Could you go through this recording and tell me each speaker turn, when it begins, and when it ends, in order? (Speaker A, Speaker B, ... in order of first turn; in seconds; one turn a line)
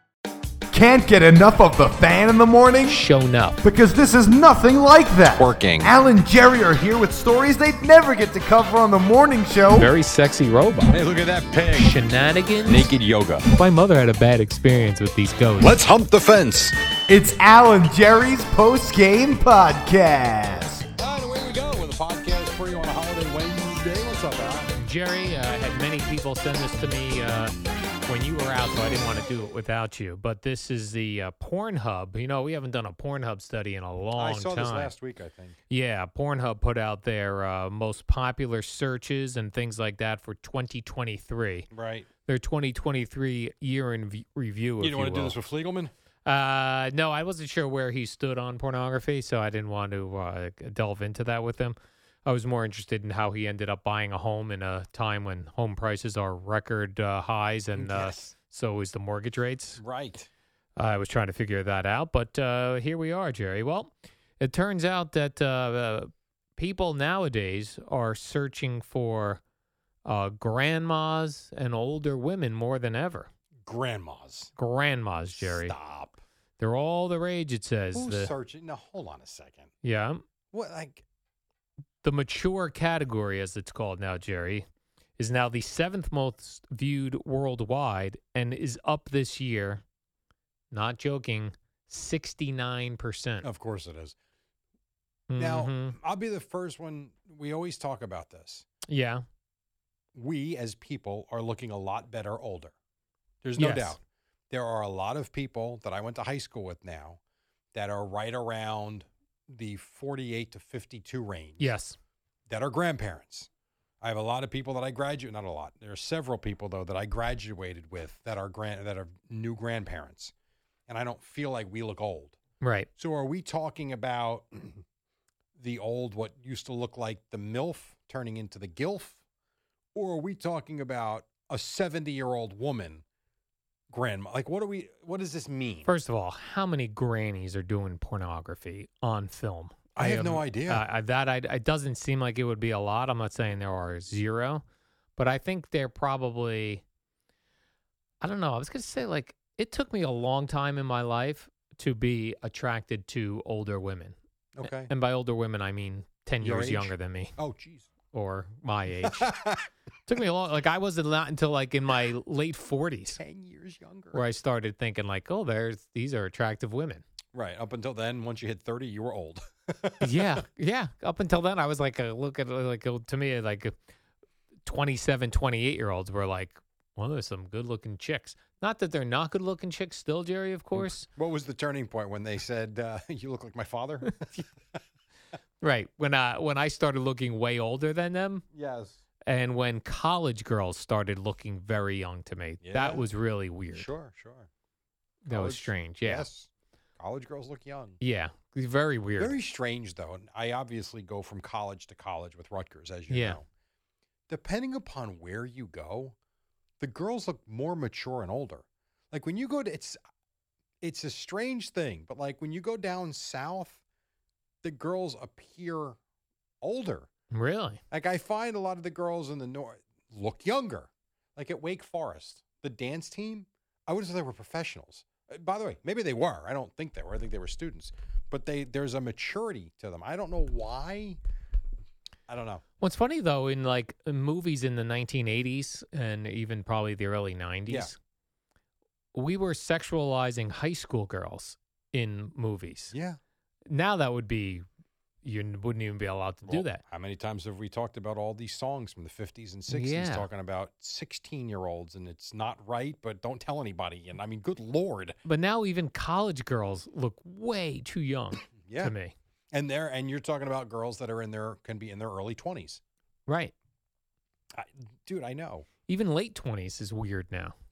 Speaker A: 0.7-3.0
Speaker B: 2.9-3.6
Speaker A: 3.6-9.9
Speaker C: 5.3-5.9
Speaker B: 9.7-11.0
Speaker C: 10.9-11.9
Speaker B: 11.7-12.9
Speaker C: 12.7-13.5
Speaker B: 13.5-15.8
Speaker C: 15.6-16.8
Speaker A: 17.1-20.8
Speaker C: 21.0-24.7
Speaker B: 24.8-27.6
Speaker B: 28.1-34.9
Speaker C: 34.1-35.6
Speaker B: 35.7-41.7
Speaker C: 41.7-42.1
Speaker B: 42.3-45.4
Speaker C: 44.8-45.9
Speaker B: 46.3-59.8
Speaker C: 57.8-58.3
Speaker C: 59.8-60.3
Speaker B: 60.8-69.4
Speaker B: 70.0-73.3
Speaker C: 73.7-74.5
Speaker B: 74.6-75.8
Speaker C: 75.3-76.2
Speaker B: 76.6-78.3
Speaker C: 77.9-79.7
Speaker B: 79.8-80.2
Speaker C: 80.5-81.0
Speaker B: 82.0-84.7
Speaker B: 85.2-89.8
Speaker B: 90.7-93.5
Speaker C: 93.4-94.2
Speaker B: 95.3-96.0
Speaker C: 95.4-98.7
Speaker B: 98.9-99.2
Speaker C: 100.2-102.8
Speaker C: 103.4-107.2
Speaker B: 103.6-104.0
Speaker C: 107.7-111.7
Speaker B: 111.6-112.0
Speaker C: 112.5-113.5
Speaker C: 114.0-120.3
Speaker C: 120.9-122.4
Speaker B: 122.6-122.9
Speaker C: 123.0-124.8
Speaker C: 125.6-129.2
Speaker C: 129.9-133.0
Speaker C: 133.9-135.9
Speaker B: 135.8-144.6
Speaker C: 140.0-140.8
Speaker B: 145.2-146.8
Speaker B: 148.2-157.3
Speaker C: 154.6-154.9
Speaker C: 156.4-157.9
Speaker B: 158.1-159.3
Speaker C: 159.0-159.7
Speaker B: 160.1-163.2
Speaker C: 163.1-164.2
Speaker B: 164.1-167.0
Speaker C: 167.3-170.4
Speaker B: 170.0-173.8
Speaker B: 174.7-181.1
Speaker C: 180.7-184.8
Speaker B: 185.6-188.4
Speaker C: 188.5-189.0
Speaker B: 189.3-193.9
Speaker C: 192.6-193.1
Speaker C: 193.7-194.5
Speaker B: 195.2-196.3
Speaker C: 195.3-198.0
Speaker B: 198.0-199.4
Speaker C: 199.2-203.5
Speaker B: 203.1-203.4
Speaker C: 204.3-206.2
Speaker C: 206.8-210.0
Speaker C: 210.8-213.8
Speaker C: 214.6-216.0
Speaker C: 216.6-217.1
Speaker B: 217.3-217.8
Speaker C: 217.9-231.2
Speaker C: 232.3-232.6
Speaker B: 232.8-238.0
Speaker C: 237.7-237.9
Speaker B: 239.1-242.9
Speaker C: 242.9-243.2
Speaker B: 243.7-244.7
Speaker B: 245.2-246.8
Speaker C: 246.5-255.2
Speaker B: 249.7-250.3
Speaker B: 255.2-259.1
Speaker C: 258.6-258.9
Speaker C: 259.5-262.8
Speaker B: 263.3-263.5
Speaker C: 264.5-265.7
Speaker B: 265.9-267.6